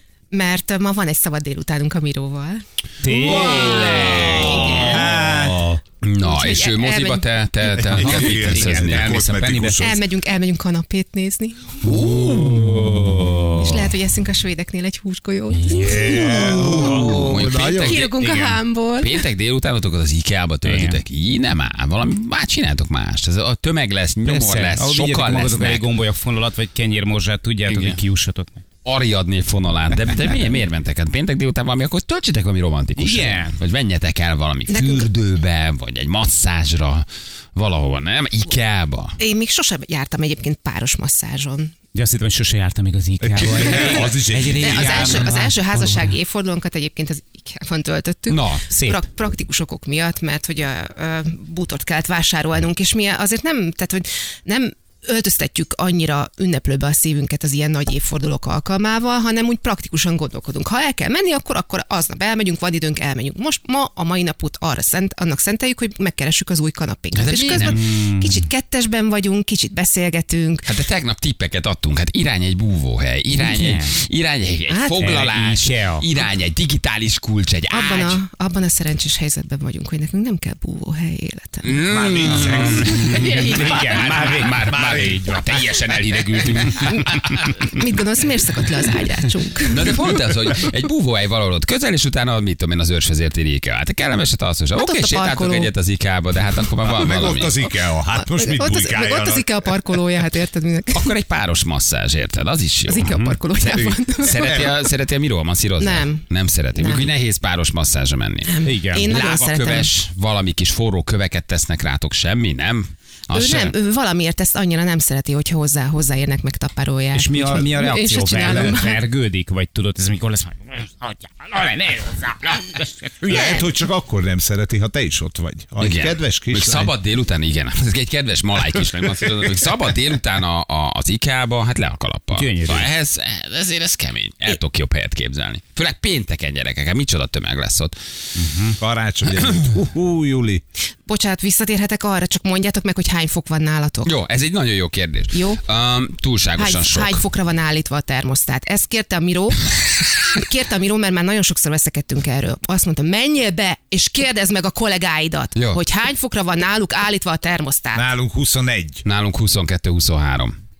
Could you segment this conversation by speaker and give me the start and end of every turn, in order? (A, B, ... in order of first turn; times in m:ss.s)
0:00.3-0:02.6 A
0:03.0-0:05.5 B
0:03.1-0:05.8 C
0:03.2-0:05.2 A
0:03.4-0:04.8 D
0:06.0-0:09.2 D
0:06.2-0:07.3 A
0:07.7-0:10.0 C
0:08.0-0:09.8 B
0:09.8-0:11.8 A
0:11.8-0:13.2 C
0:11.8-0:13.9 B
0:13.6-0:17.1 A
0:15.5-0:16.8 B
0:15.8-0:18.0 C
0:16.7-0:18.2 D
0:17.8-0:19.2 A
0:18.2-0:18.6 B
0:19.0-0:25.9 D
0:20.6-0:21.0 B
0:24.2-0:28.6 B
0:27.7-0:28.0 D
0:28.8-0:39.2 D
0:33.0-0:33.5 B
0:34.7-0:35.1 A
0:39.2-0:41.7 A
0:41.9-0:46.1 B
0:43.2-0:45.3 C
0:44.5-1:10.7 A
0:48.3-0:48.6 D
0:48.7-0:49.0 B
1:07.1-1:07.8 D
1:07.6-1:08.4 B
1:10.6-1:18.2 D
1:13.4-1:13.9 B
1:14.7-1:15.2 A
1:15.0-1:16.0 B
1:17.7-1:21.7 A
1:21.6-1:27.6 D
1:21.9-1:25.3 C
1:22.4-1:25.5 B
1:26.9-1:30.0 A
1:29.6-1:37.6 D
1:34.7-1:35.7 A
1:36.8-1:39.8 C
1:38.1-1:41.0 A
1:40.9-1:53.7 D
1:42.9-1:44.6 A
1:43.0-1:43.4 B
1:44.3-1:44.7 C
1:45.8-1:47.1 A
1:48.4-1:49.9 A
1:48.6-1:49.1 B
1:53.3-1:59.0 A
1:57.1-2:03.5 B
2:03.2-2:06.9 C
2:03.3-2:03.7 A
2:05.8-2:17.9 D
2:12.3-2:12.9 B
2:18.3-2:18.8 B
2:18.8-2:20.6 C
2:21.1-2:24.1 A
2:24.0-2:27.2 D
2:25.3-2:25.6 A
2:26.5-2:38.1 A
2:35.5-2:35.8 D
2:37.9-2:39.0 C
2:39.0-2:40.5 D